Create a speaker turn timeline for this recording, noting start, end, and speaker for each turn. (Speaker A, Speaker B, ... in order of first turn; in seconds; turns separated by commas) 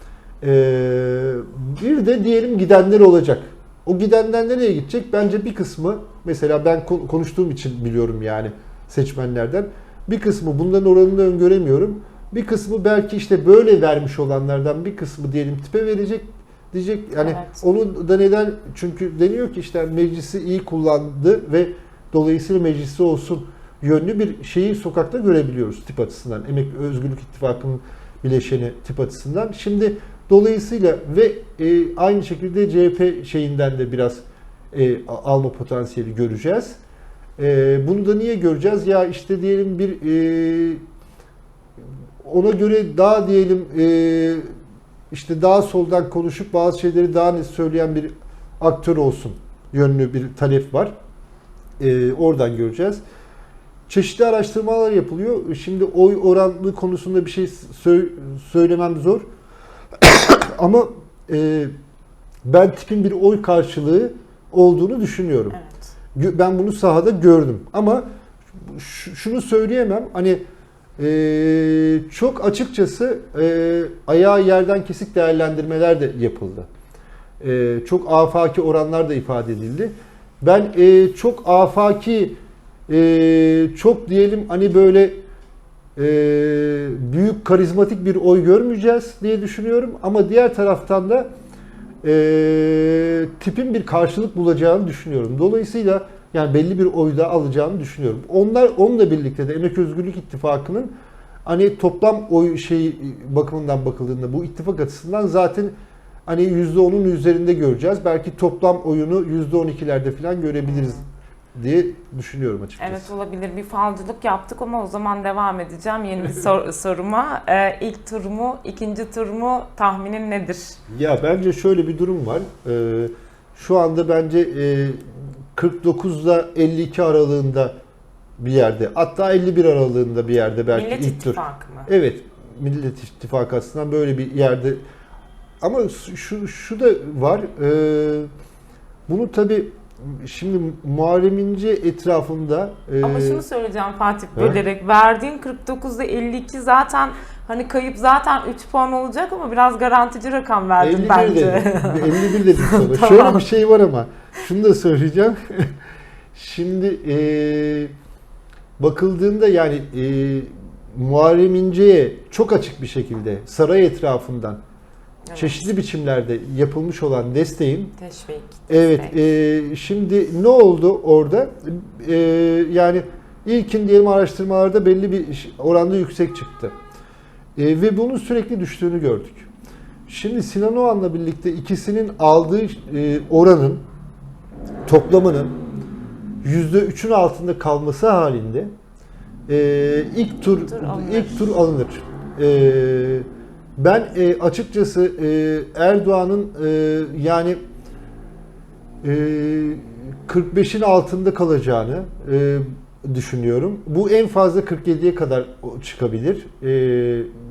Speaker A: 0.4-36.8, Speaker B: 17.2-17.6, Speaker A: 37.4-40.8, Speaker A: 42.2-44.5, Speaker A: 45.1-50.9, Speaker A: 51.8-53.0, Speaker A: 53.9-59.2, Speaker A: 60.0-61.7, Speaker A: 62.4-65.6, Speaker B: 65.5-65.9, Speaker A: 66.1-68.0, Speaker A: 68.6-70.4, Speaker A: 71.0-76.7, Speaker A: 77.4-85.2, Speaker A: 86.0-91.3, Speaker A: 92.0-100.9, Speaker A: 101.4-105.7, Speaker A: 106.2-111.0, Speaker B: 110.6-111.0, Speaker A: 111.5-113.1, Speaker B: 112.8-120.8, Speaker A: 120.9-127.7, Speaker A: 128.4-134.8, Speaker B: 130.7-131.9, Speaker A: 135.6-138.3, Speaker A: 139.1-143.4, Speaker B: 143.0-153.4, Speaker A: 144.3-144.6, Speaker A: 150.8-155.8, Speaker A: 156.3-157.9, Speaker A: 158.8-164.6, Speaker B: 165.3-165.6, Speaker A: 165.3-167.9, Speaker B: 168.0-169.2, Speaker A: 168.7-176.7, Speaker A: 177.6-179.5, Speaker A: 180.1-183.8, Speaker A: 184.8-185.6, Speaker A: 186.4-188.7, Speaker A: 189.5-197.6, Speaker B: 190.6-191.5, Speaker A: 199.0-207.3